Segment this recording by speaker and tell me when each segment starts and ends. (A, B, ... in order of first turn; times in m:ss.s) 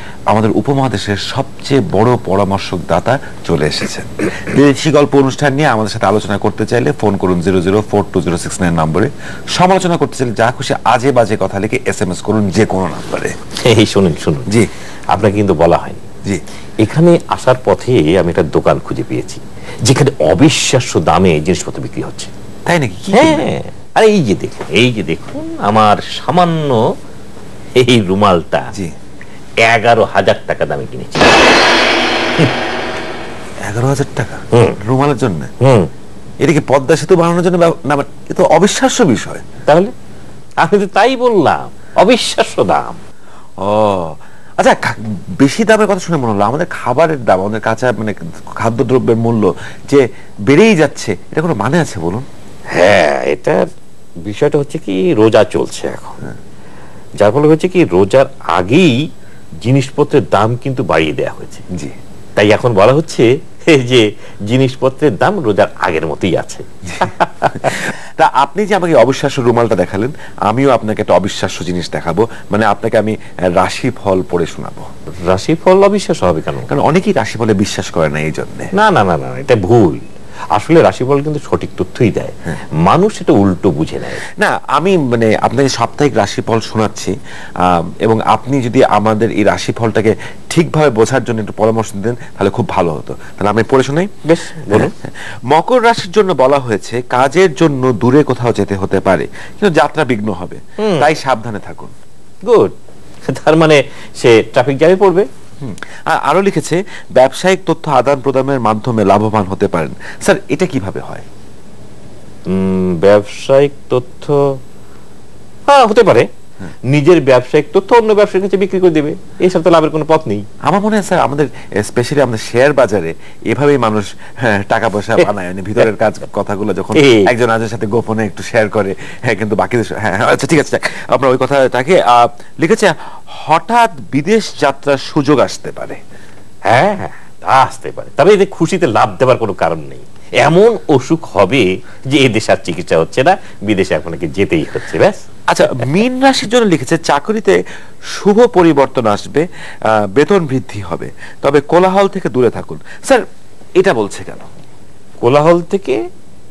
0:00.3-0:13.4 A
0:13.6-0:14.5 B
0:15.1-0:16.0 B
0:16.8-0:22.3 B
0:22.7-0:23.4 A
0:23.1-0:26.9 B
0:27.8-0:28.7 B
0:29.6-0:31.5 B
0:33.6-0:35.5 A
0:34.5-0:34.8 B
0:35.6-0:35.9 B
0:36.4-0:39.4 A
0:39.7-0:39.9 B
0:40.6-0:43.0 B
0:43.6-0:52.3 A
0:52.7-0:53.7 B
0:54.2-0:56.2 B
0:57.2-0:59.0 B
0:59.6-1:01.6 B
1:02.4-1:07.9 B
1:06.8-1:14.9 A
1:15.3-1:16.7 B
1:16.7-1:18.7 A
1:18.7-1:20.0 B
1:20.5-1:24.2 B
1:24.4-1:34.1 A
1:34.2-1:34.9 B
1:34.7-1:41.9 A
1:40.8-1:41.2 B
1:42.4-1:42.7 B
1:43.3-1:45.3 B
1:45.6-1:51.2 A
1:52.5-1:54.5 B
1:55.7-1:56.3 B
1:56.9-2:00.5 B
2:00.7-2:16.0 A
2:07.0-2:07.3 B
2:16.7-2:26.0 B
2:25.5-2:27.6 A
2:28.1-2:33.2 A
2:33.8-2:34.5 A
2:35.2-2:36.0 B